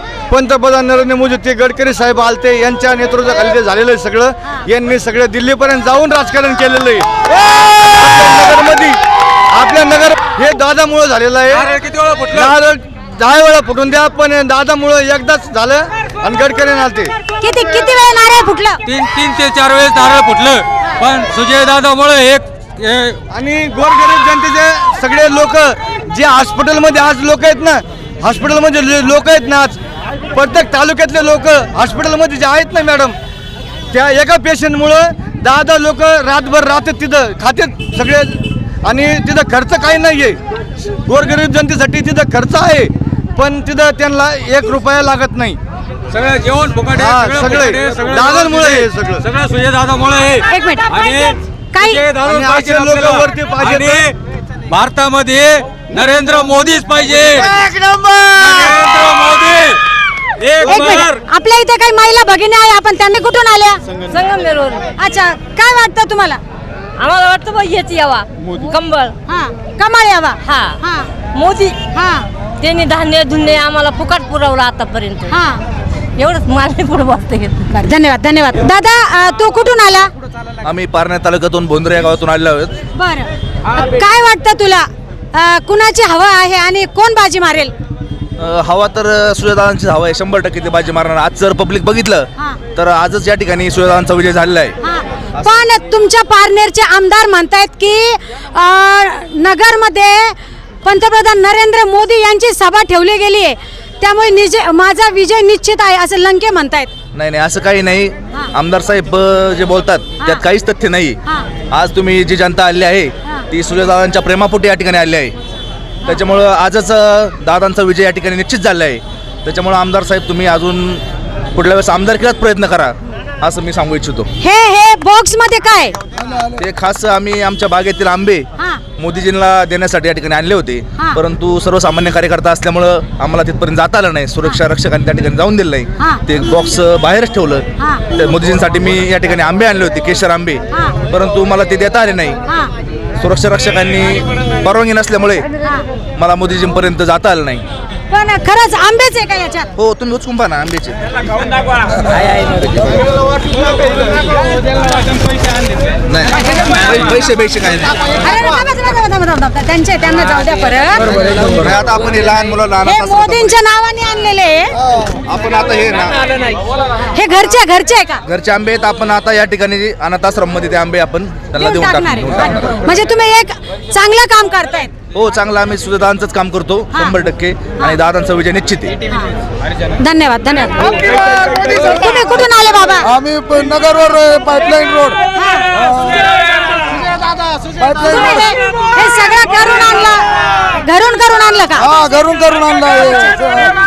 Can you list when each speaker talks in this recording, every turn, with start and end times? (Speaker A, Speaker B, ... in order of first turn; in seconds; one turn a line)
Speaker A: 0.3-9.0
Speaker A: 9.5-11.7
Speaker B: 11.5-12.6
Speaker A: 12.3-17.1
Speaker C: 17.4-18.8
Speaker B: 18.9-23.2
Speaker A: 23.3-29.8
Speaker A: 30.3-33.1
Speaker A: 33.9-40.4
Speaker A: 40.9-45.6
Speaker B: 46.1-54.1
Speaker A: 47.0-49.2
Speaker C: 50.5-51.2
Speaker C: 51.7-52.0
Speaker A: 52.2-54.0
Speaker B: 54.7-57.5
Speaker B: 58.2-59.8
Speaker B: 60.4-61.2
Speaker C: 60.7-63.8
Speaker D: 64.1-64.9
Speaker C: 65.0-66.4
Speaker D: 67.0-69.1
Speaker C: 69.3-71.1
Speaker D: 70.5-70.8
Speaker D: 71.3-71.8
Speaker C: 72.0-72.2
Speaker D: 72.6-75.3
Speaker C: 75.3-75.6
Speaker D: 76.2-77.7
Speaker C: 77.7-80.1
Speaker E: 80.6-82.7
Speaker C: 83.0-87.7
Speaker E: 88.4-94.8
Speaker C: 94.8-106.9
Speaker E: 107.1-111.2
Speaker E: 111.7-115.3
Speaker E: 116.1-121.0
Speaker E: 121.5-124.3
Speaker C: 124.4-126.0
Speaker E: 126.6-128.5
Speaker E: 129.0-142.4
Speaker E: 143.2-145.5
Speaker E: 146.2-147.6
Speaker C: 148.1-149.7
Speaker E: 149.8-151.0
Speaker E: 156.1-158.0
Speaker C: 158.2-161.2
Speaker E: 161.2-163.5
Speaker C: 162.8-164.7
Speaker E: 165.2-166.2
Speaker C: 167.1-168.2
Speaker E: 168.3-172.8
Speaker C: 171.6-174.9
Speaker E: 175.1-178.9
Speaker C: 180.0-181.0
Speaker F: 181.0-182.0
Speaker C: 181.6-183.1
Speaker F: 183.0-185.2
Speaker C: 185.4-185.7
Speaker F: 185.7-186.3
Speaker F: 187.8-188.5
Speaker C: 188.0-190.3
Speaker C: 190.8-191.9
Speaker F: 191.8-193.7